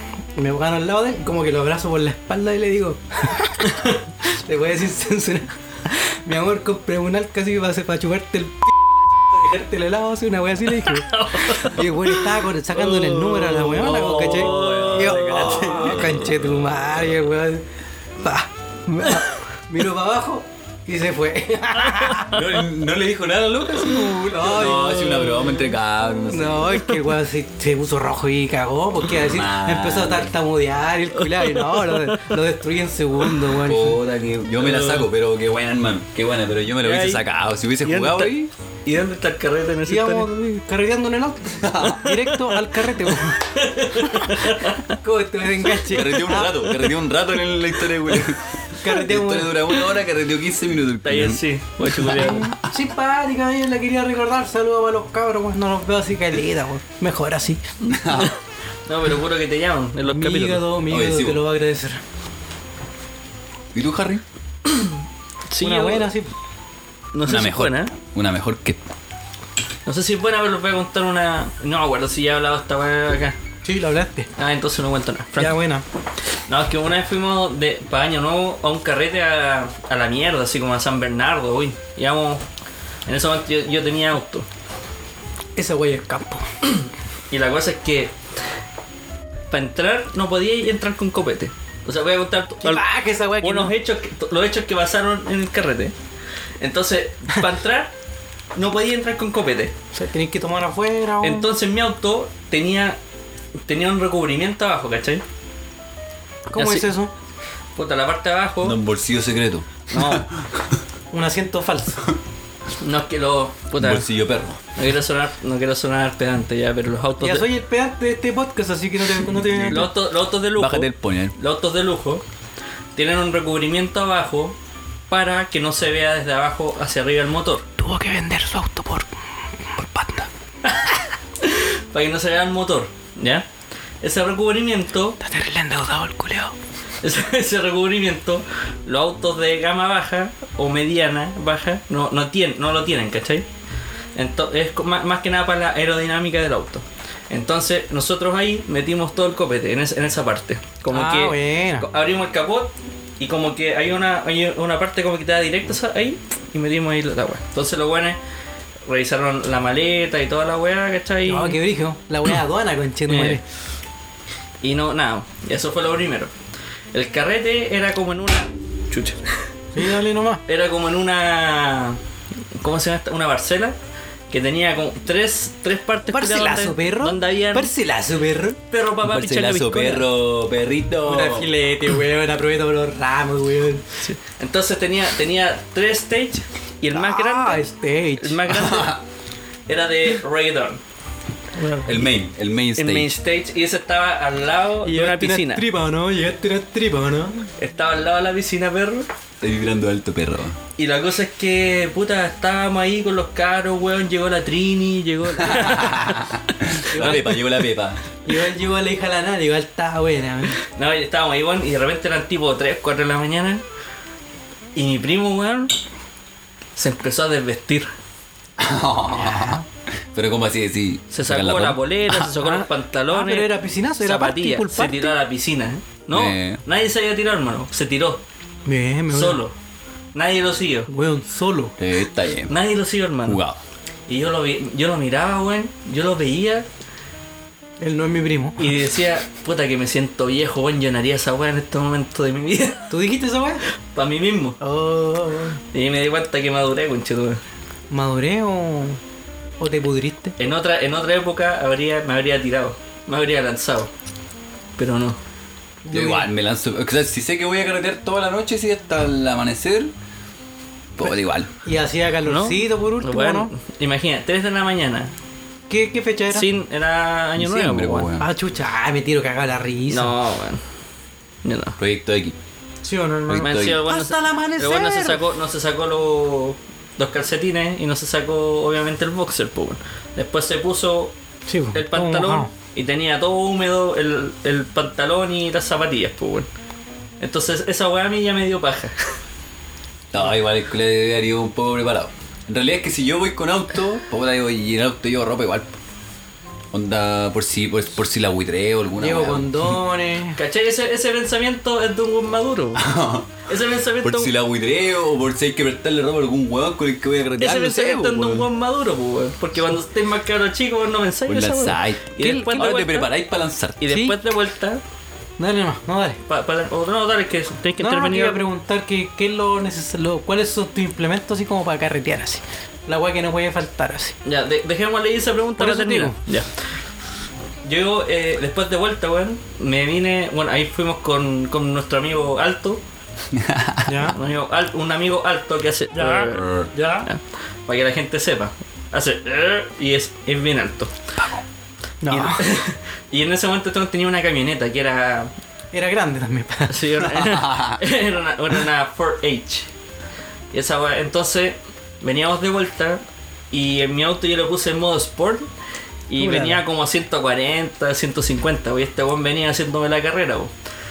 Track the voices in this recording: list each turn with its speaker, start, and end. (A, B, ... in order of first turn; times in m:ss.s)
0:00.4-0:17.6 A
0:03.7-0:03.9 B
0:10.8-0:16.6 B
0:15.3-0:16.1 C
0:18.2-0:22.4 A
0:21.9-0:22.3 B
0:22.3-0:26.9 C
0:23.9-0:25.5 A
0:26.3-0:34.0 A
0:29.2-0:30.4 C
0:31.2-0:32.3 B
0:33.6-0:38.5 C
0:34.6-0:35.1 B
0:36.8-0:37.2 B
0:37.8-0:38.3 B
0:38.8-0:40.3 B
0:39.9-0:46.8 A
0:41.6-0:42.1 C
0:42.8-0:44.9 B
0:45.9-0:52.6 C
0:48.8-0:49.6 A
0:51.0-0:52.4 B
0:52.2-0:57.6 A
0:57.8-0:58.4 B
0:57.9-0:58.3 C
0:58.9-1:00.6 B
1:00.1-1:02.0 A
1:00.9-1:01.4 C
1:03.7-1:04.2 C
1:04.7-1:05.0 B
1:05.5-1:06.1 B
1:05.6-1:06.3 A
1:07.1-1:07.9 B
1:07.2-1:08.8 C
1:09.9-1:13.4 B
1:13.6-1:14.3 A
1:14.4-1:15.6 B
1:15.4-1:15.8 A
1:16.5-1:22.4 B
1:23.1-1:24.5 B
1:25.6-1:26.5 A
1:27.3-1:28.1 B
1:29.5-1:32.8 B
1:32.6-1:33.7 A
1:33.4-1:35.9 B
1:36.6-1:37.9 B
1:38.6-1:39.7 B
1:39.9-1:41.5 A
1:41.2-1:43.0 B
1:43.7-1:45.2 B
1:46.5-1:47.1 A
1:46.6-1:46.9 B
1:47.8-1:48.8 B
1:48.6-1:50.6 C
1:49.9-1:50.3 B
1:51.1-1:52.0 A
1:52.8-1:54.1 B
1:53.8-1:54.6 C
1:54.7-1:57.5 B
1:57.2-1:59.9 A
1:59.3-1:59.9 C
1:59.7-2:02.2 B
2:00.5-2:01.4 C
2:03.0-2:04.6 B
2:05.1-2:07.7 B
2:07.8-2:09.1 A
2:09.6-2:10.3 A
2:10.6-2:13.5 B
2:14.0-2:15.2 B
2:15.2-2:16.5 A
2:17.0-2:23.5 B
2:24.2-2:38.2 B
2:30.9-2:31.9 A
2:38.9-2:41.6 B
2:41.3-2:43.4 A
2:43.1-2:43.4 B
2:44.6-2:46.3 B
2:46.9-2:49.4 B
2:49.8-2:50.4 A
2:50.5-2:52.0 B
2:52.6-2:53.8 B
2:54.3-2:57.7 B
2:56.1-2:58.6 A
2:58.7-3:00.1 B
2:59.0-3:01.5 C
3:01.0-3:03.9 A
3:04.0-3:07.6 B
3:06.9-3:08.4 A
3:08.2-3:09.0 B
3:08.5-3:09.0 C
3:09.7-3:10.8 B
3:11.6-3:12.1 A
3:11.8-3:13.1 C
3:12.8-3:15.6 B
3:14.8-3:17.5 A
3:17.6-3:19.1 B
3:19.4-3:20.6 C
3:20.8-3:26.2 B
3:25.4-3:28.0 C
3:26.9-3:27.4 A
3:28.3-3:30.6 A
3:30.6-3:33.6 B
3:34.8-3:35.8 B
3:36.8-3:37.9 B
3:38.6-3:42.3 C
3:39.1-3:39.6 A
3:41.1-3:48.2 B
3:42.4-3:45.2 A
3:46.1-3:46.6 C
3:48.7-3:49.4 A
3:49.1-3:49.5 B
3:50.1-3:50.9 B
3:50.9-3:51.8 A
3:51.8-3:52.6 C
3:52.5-3:53.4 B
3:53.2-3:53.6 C
3:54.1-3:56.7 B
3:57.8-3:58.7 A
3:58.6-4:02.9 B
4:02.9-4:03.6 A
4:03.9-4:04.6 B
4:04.6-4:05.6 A
4:05.7-4:07.4 B
4:07.9-4:09.0 A
4:09.6-4:10.4 A
4:10.4-4:13.9 B
4:14.8-4:15.2 B
4:15.8-4:16.3 A
4:15.9-4:19.9 C
4:21.0-4:21.5 C
4:21.6-4:23.5 A
4:22.3-4:25.1 B
4:25.7-4:26.5 A
4:26.3-4:28.1 B
4:27.4-4:28.3 C
4:28.2-4:30.2 A
4:29.9-4:30.6 B
4:31.4-4:31.8 B
4:31.8-4:32.4 C
4:32.8-4:35.2 A
4:33.3-4:33.8 C
4:33.4-4:41.2 B
4:41.5-4:42.5 A
4:41.7-4:46.5 B
4:47.2-4:49.0 B
4:50.1-4:55.7 C
4:56.7-4:59.8 C
4:59.0-5:00.4 A
5:00.4-5:02.8 B
5:02.8-5:03.4 C
5:03.5-5:04.3 B
5:04.0-5:08.5 C
5:07.4-5:13.1 B
5:11.3-5:13.9 C
5:12.2-5:12.6 A
5:13.8-5:14.8 B
5:13.9-5:14.2 A
5:15.4-5:16.2 A
5:16.3-5:18.4 B
5:17.8-5:24.2 A
5:24.2-5:26.5 B
5:25.6-5:26.2 A
5:27.6-5:32.8 B
5:33.3-5:34.1 C
5:33.9-5:34.2 A
5:34.1-5:36.4 B
5:36.0-5:37.1 A
5:36.2-5:36.7 C
5:37.0-5:40.9 B
5:42.0-5:42.4 A
5:42.1-5:45.3 B
5:45.7-5:47.0 A
5:46.7-5:49.7 B
5:47.1-5:47.8 C
5:50.5-5:53.0 B
5:53.5-5:55.5 B
5:56.1-6:00.5 B
5:56.2-5:56.6 A